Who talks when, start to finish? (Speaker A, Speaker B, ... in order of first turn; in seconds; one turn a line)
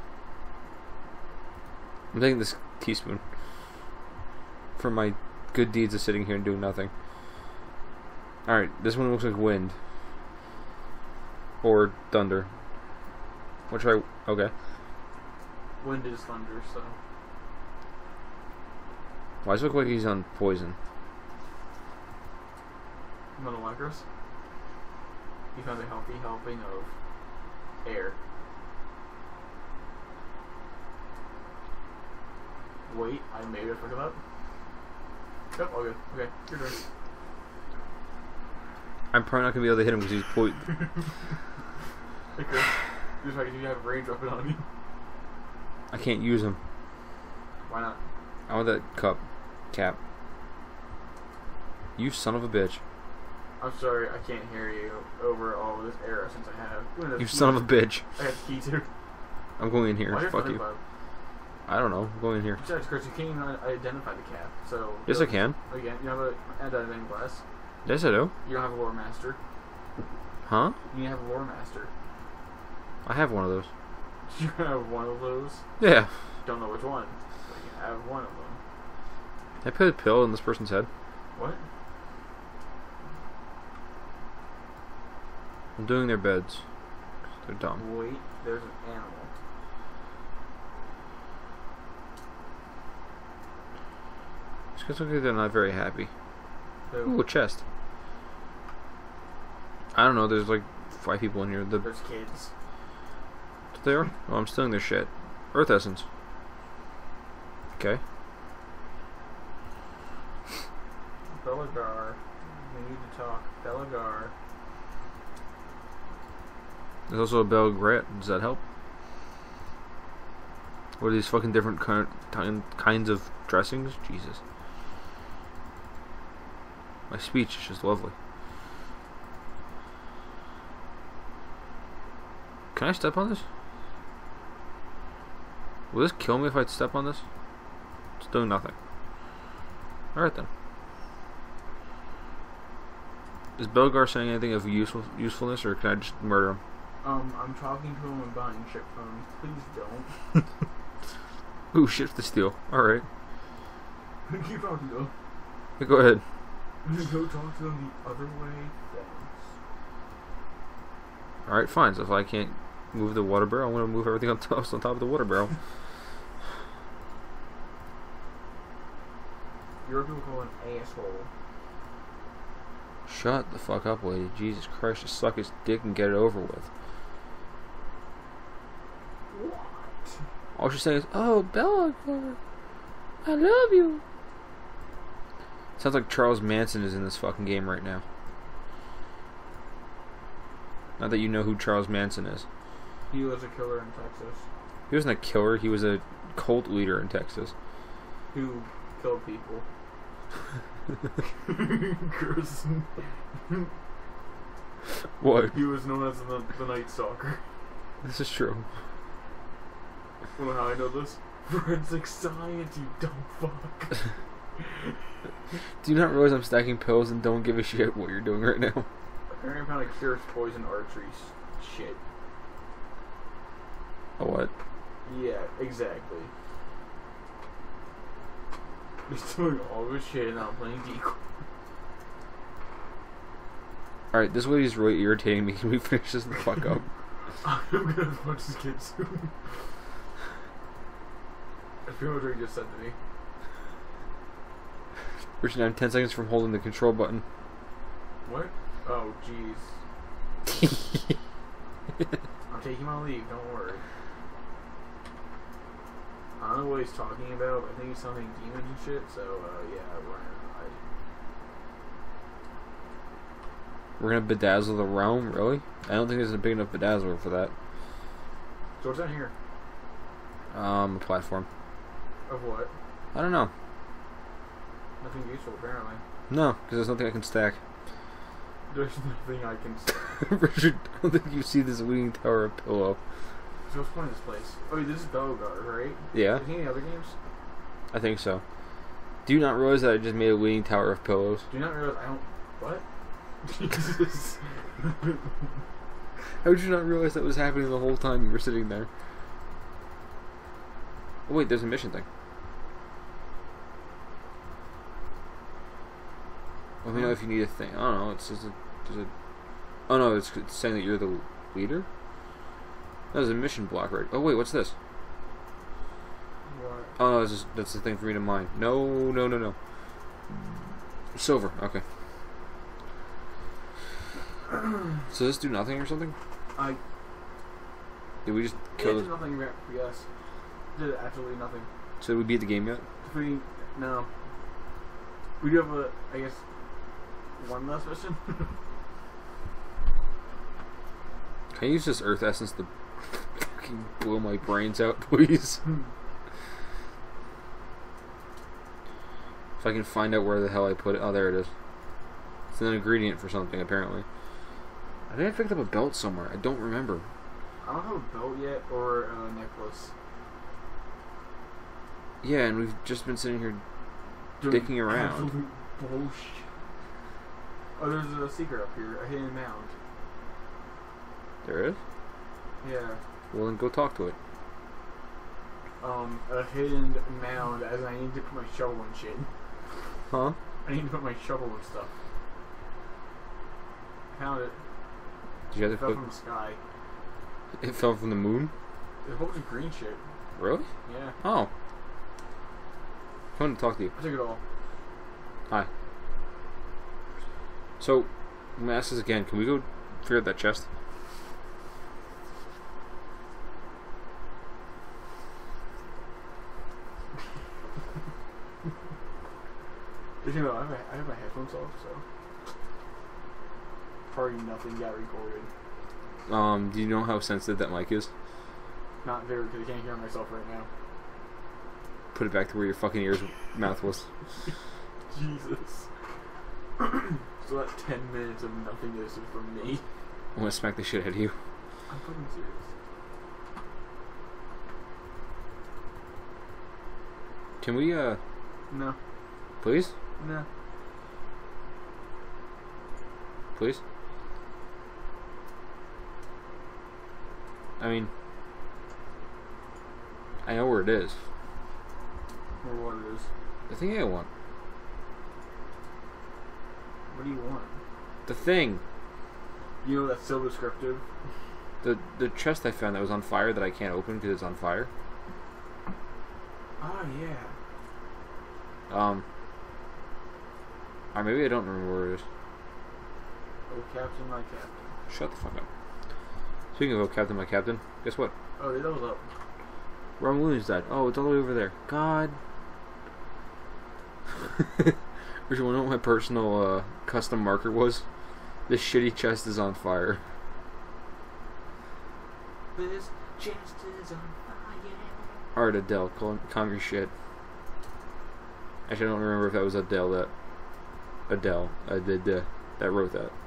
Speaker A: 2.1-3.2
Speaker A: 4.8-6.9
Speaker A: 8.5-9.7
Speaker A: 11.6-12.5
Speaker A: 13.7-14.5
Speaker B: 15.8-16.9
Speaker A: 19.4-20.7
Speaker B: 23.4-24.0
Speaker B: 25.5-26.9
Speaker B: 27.8-28.1
Speaker B: 32.9-34.2
Speaker B: 35.5-36.8
Speaker A: 39.1-40.7
Speaker B: 40.7-40.9
Speaker B: 42.3-44.6
Speaker A: 45.9-46.6
Speaker B: 47.7-48.0
Speaker A: 48.5-50.0
Speaker A: 52.0-52.8
Speaker B: 53.6-58.9
Speaker A: 57.2-58.0
Speaker A: 59.6-60.6
Speaker B: 60.1-60.8
Speaker A: 61.7-62.6
Speaker B: 62.6-67.4
Speaker A: 65.1-65.5
Speaker A: 67.8-68.3
Speaker B: 68.4-69.4
Speaker A: 70.5-70.8
Speaker B: 70.9-71.9
Speaker A: 73.0-73.7
Speaker B: 74.3-75.6
Speaker A: 75.8-76.1
Speaker B: 76.4-78.6
Speaker A: 79.6-80.9
Speaker B: 81.3-81.6
Speaker A: 85.8-86.6
Speaker A: 87.5-87.8
Speaker B: 87.8-89.3
Speaker A: 94.8-96.1
Speaker B: 96.9-97.1
Speaker A: 97.0-97.6
Speaker A: 99.9-101.9
Speaker B: 101.8-102.5
Speaker A: 103.7-106.0
Speaker B: 111.4-114.3
Speaker A: 117.1-118.6
Speaker A: 121.0-124.4
Speaker A: 127.1-128.1
Speaker A: 132.7-133.4
Speaker A: 135.9-137.2
Speaker A: 138.2-138.7
Speaker A: 140.1-140.5
Speaker A: 143.6-146.6
Speaker B: 147.0-150.1
Speaker A: 151.7-153.0
Speaker B: 154.3-155.1
Speaker A: 155.8-156.2
Speaker B: 156.8-159.3
Speaker A: 161.5-165.5
Speaker B: 169.8-171.3
Speaker A: 173.1-176.7
Speaker B: 179.3-180.2
Speaker A: 180.6-182.4
Speaker A: 183.2-184.0
Speaker A: 185.8-188.0
Speaker A: 191.0-192.4
Speaker B: 193.1-194.4
Speaker A: 194.9-197.5
Speaker B: 198.3-199.6
Speaker B: 201.4-203.7
Speaker A: 205.2-205.7
Speaker B: 205.5-207.4
Speaker A: 208.0-208.7
Speaker B: 210.3-213.9
Speaker B: 214.6-214.9
Speaker A: 215.8-218.9
Speaker B: 219.3-222.0
Speaker A: 224.2-224.5
Speaker B: 225.0-226.3
Speaker B: 229.1-231.2
Speaker A: 234.1-236.8
Speaker B: 237.4-239.3
Speaker B: 241.8-242.9
Speaker A: 245.4-247.2
Speaker B: 248.2-249.7
Speaker B: 252.5-253.8
Speaker B: 256.4-260.8
Speaker A: 264.0-267.5
Speaker B: 268.8-269.3
Speaker A: 270.5-271.5
Speaker B: 272.3-272.7
Speaker A: 273.1-273.5
Speaker B: 275.0-276.0
Speaker A: 276.3-277.6
Speaker B: 278.7-280.2
Speaker A: 280.2-283.0
Speaker B: 283.7-287.1
Speaker A: 286.1-286.4
Speaker A: 287.9-288.4
Speaker A: 289.2-291.4
Speaker B: 291.5-292.8
Speaker B: 293.4-295.3
Speaker A: 296.4-298.9
Speaker A: 301.3-302.0
Speaker A: 306.8-309.1
Speaker A: 309.9-311.9
Speaker A: 313.1-314.7
Speaker B: 316.5-316.9
Speaker A: 317.0-319.6
Speaker A: 320.3-320.6
Speaker A: 321.1-321.8
Speaker A: 325.1-326.1
Speaker A: 328.2-329.1
Speaker B: 328.8-330.0
Speaker B: 330.7-331.7
Speaker A: 332.0-332.8
Speaker B: 333.0-334.1
Speaker B: 335.4-336.4
Speaker B: 337.4-338.5
Speaker A: 341.5-345.6
Speaker A: 349.6-351.5
Speaker A: 352.5-354.0
Speaker A: 355.1-357.1
Speaker B: 357.6-359.9
Speaker A: 362.2-363.6
Speaker B: 364.4-366.4
Speaker A: 364.5-365.3
Speaker B: 367.8-369.7
Speaker A: 371.4-371.8
Speaker B: 372.6-373.0
Speaker A: 373.3-374.1
Speaker B: 375.8-379.3
Speaker A: 380.1-380.4
Speaker B: 380.6-381.9
Speaker B: 384.1-384.6
Speaker A: 385.5-386.0
Speaker B: 385.6-386.6
Speaker A: 387.6-388.5
Speaker B: 389.0-390.0
Speaker A: 390.4-390.7
Speaker B: 390.9-391.1
Speaker A: 391.2-391.5
Speaker A: 393.4-393.9
Speaker B: 393.9-394.4
Speaker A: 397.8-400.6
Speaker B: 410.2-412.0
Speaker B: 414.1-415.5
Speaker A: 416.3-418.1
Speaker B: 419.0-420.7
Speaker A: 422.1-424.1
Speaker B: 425.1-425.9
Speaker B: 426.8-429.8
Speaker A: 430.3-431.3
Speaker B: 431.9-432.6
Speaker A: 437.6-438.2
Speaker B: 438.7-439.0
Speaker A: 439.6-439.9
Speaker B: 440.2-440.4
Speaker A: 443.5-443.8
Speaker A: 447.8-448.1
Speaker A: 450.4-451.2
Speaker B: 452.6-453.3
Speaker A: 453.7-454.3
Speaker B: 457.1-457.8
Speaker A: 458.2-458.8
Speaker B: 459.8-461.0
Speaker A: 461.8-464.9
Speaker B: 466.8-467.5
Speaker A: 468.9-469.2
Speaker A: 471.1-472.2
Speaker B: 473.7-474.8
Speaker A: 475.1-475.7
Speaker A: 476.7-478.3
Speaker B: 478.6-479.2
Speaker A: 480.2-482.4
Speaker A: 484.6-484.9
Speaker A: 485.5-488.0
Speaker A: 488.7-490.2
Speaker B: 492.7-495.4
Speaker A: 495.5-497.1
Speaker A: 498.9-500.3
Speaker A: 501.3-503.3